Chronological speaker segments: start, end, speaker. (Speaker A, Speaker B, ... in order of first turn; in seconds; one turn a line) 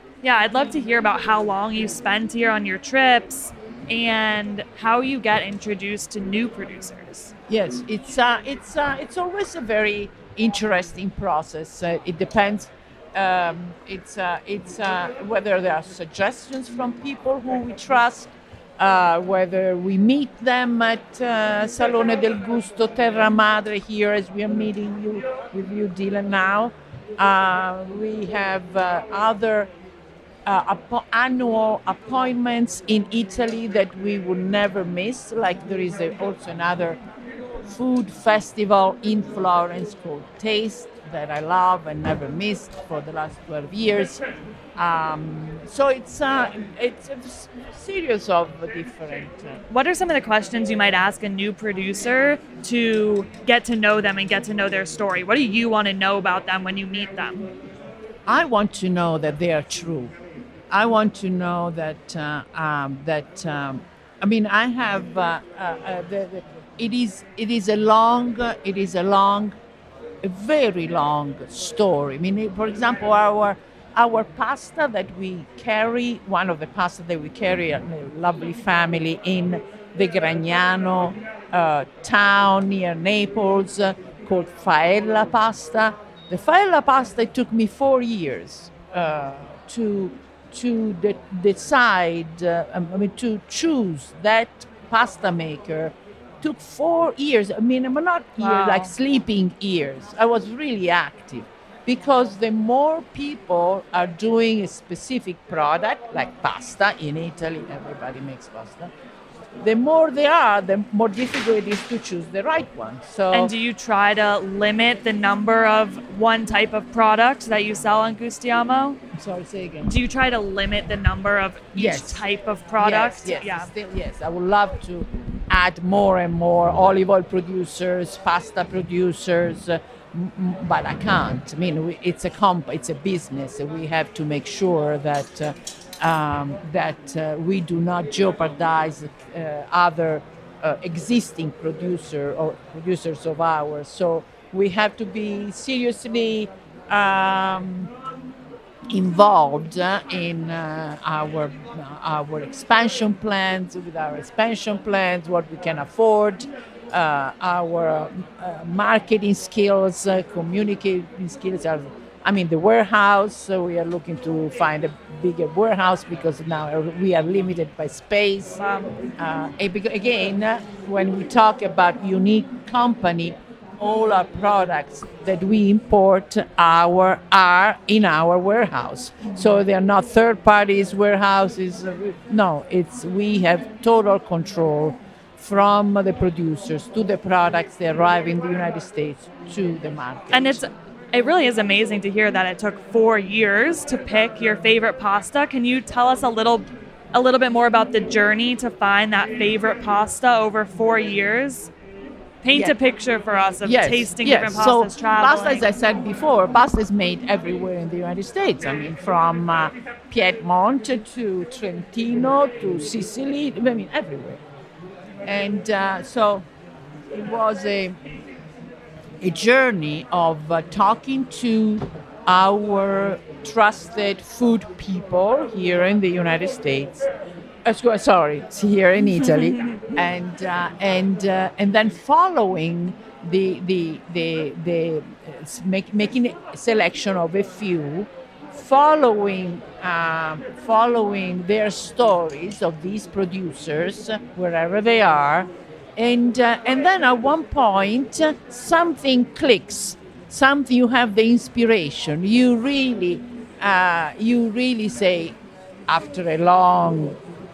Speaker A: 0.2-7.3
Speaker B: 7.5-29.7
Speaker B: 30.4-37.0
Speaker B: 37.6-44.2
Speaker B: 44.8-49.6
Speaker A: 49.7-57.4
Speaker B: 58.2-60.1
Speaker B: 60.7-69.6
Speaker B: 70.2-108.9
Speaker A: 98.4-98.9
Speaker B: 109.6-113.5
Speaker A: 113.3-119.0
Speaker B: 119.1-119.9
Speaker A: 119.8-123.7
Speaker B: 121.7-122.2
Speaker B: 122.8-147.9
Speaker B: 148.9-168.6
Speaker A: 168.6-168.9
Speaker B: 169.2-190.6
Speaker A: 190.3-201.7
Speaker A: 202.4-205.6
Speaker B: 203.6-214.4
Speaker B: 215.2-216.4
Speaker B: 217.1-218.0
Speaker B: 219.2-227.1
Speaker B: 227.6-257.2